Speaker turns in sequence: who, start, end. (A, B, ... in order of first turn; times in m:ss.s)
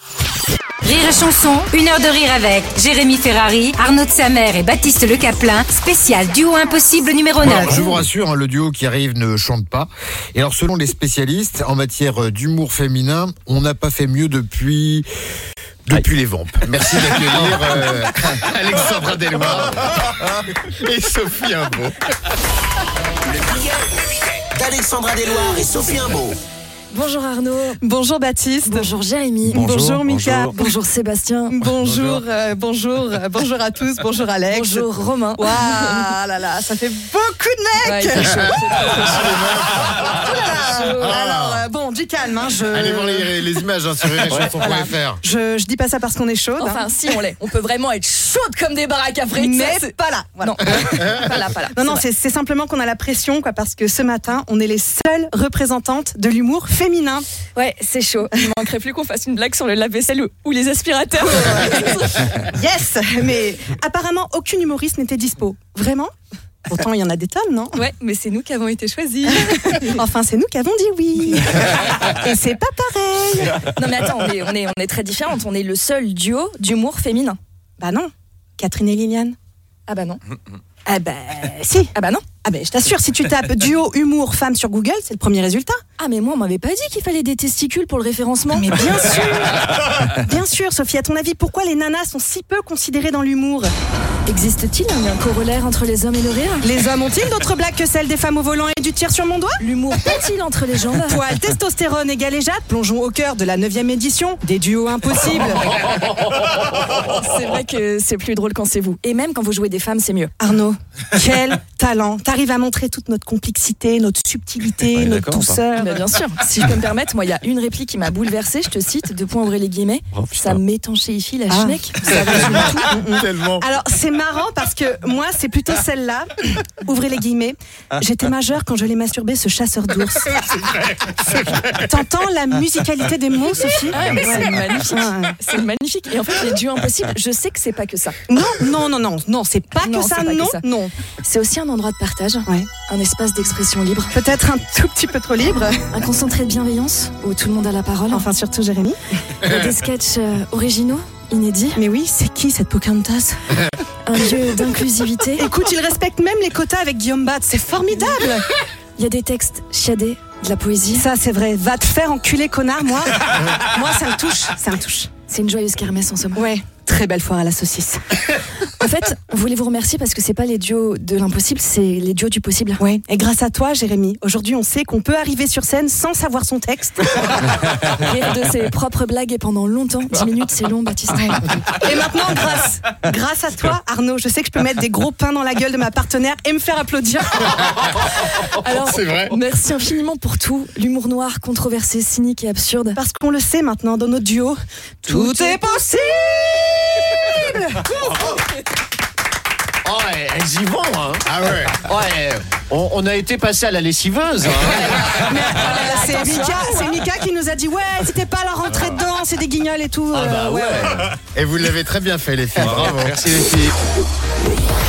0:00.8-0:08.0 A
0:07.4-0:15.0 B
0:15.8-0:21.9 B
0:23.3-0:23.8 C
0:24.5-0:26.4 C
0:26.9-0:27.8 D
0:27.8-0:28.9 E
0:28.6-0:29.7 D
0:29.4-0:30.8 E
0:30.5-0:31.6 D
0:31.5-0:43.4 E
0:31.8-0:32.2 B
0:34.5-0:36.1 D
0:37.8-0:41.2 D
0:41.0-0:41.6 B
0:42.7-0:45.2 B
0:44.3-0:46.9 E
0:46.6-0:52.0 D
0:49.3-0:51.2 E
0:51.7-0:57.3 E
0:57.5-1:02.3 D
1:01.3-1:06.1 E
1:06.6-1:07.8 E
1:07.7-1:10.0 D
1:09.3-1:13.6 E
1:13.6-1:17.4 D
1:17.8-1:19.4 E
1:19.9-1:20.2 D
1:20.8-1:21.9 E
1:21.9-1:22.3 D
1:22.4-1:25.8 E
1:26.0-1:28.9 D
1:28.5-1:33.7 E
1:34.3-1:36.7 D
1:36.6-1:39.6 E
1:39.6-1:41.2 D
1:41.1-1:45.8 E
1:46.9-1:50.3 D
1:50.4-1:56.0 E
1:54.9-1:55.6 F
1:55.7-2:03.0 D
2:00.1-2:00.6 F
2:01.5-2:10.6 E
2:11.7-2:15.4 E
2:13.9-2:18.2 D
2:18.3-2:20.9 E
2:19.8-2:20.6 D
2:21.2-2:24.2 D
2:24.1-2:25.8 E
2:25.9-2:28.2 D
2:28.1-2:29.0 E
2:29.4-2:31.8 D
2:31.7-2:33.4 E
2:34.0-2:35.5 D
2:35.4-2:38.5 E
2:39.0-2:41.1 D
2:40.9-2:45.1 E
2:45.3-2:46.5 D
2:46.3-2:48.0 E
2:48.8-2:52.8 D
2:52.8-2:57.2 E
2:57.8-3:01.6 D
3:01.2-3:07.9 E
3:08.1-3:13.0 D
3:12.9-3:17.9 E
3:15.0-3:15.9 D
3:17.9-3:18.4 D
3:19.8-3:21.2 F
3:21.2-3:21.8 B
3:21.8-3:25.4 F
3:25.2-3:30.9 E
3:25.5-3:27.0 D
3:30.1-3:31.2 F
3:31.3-3:33.2 B
3:32.6-3:33.7 F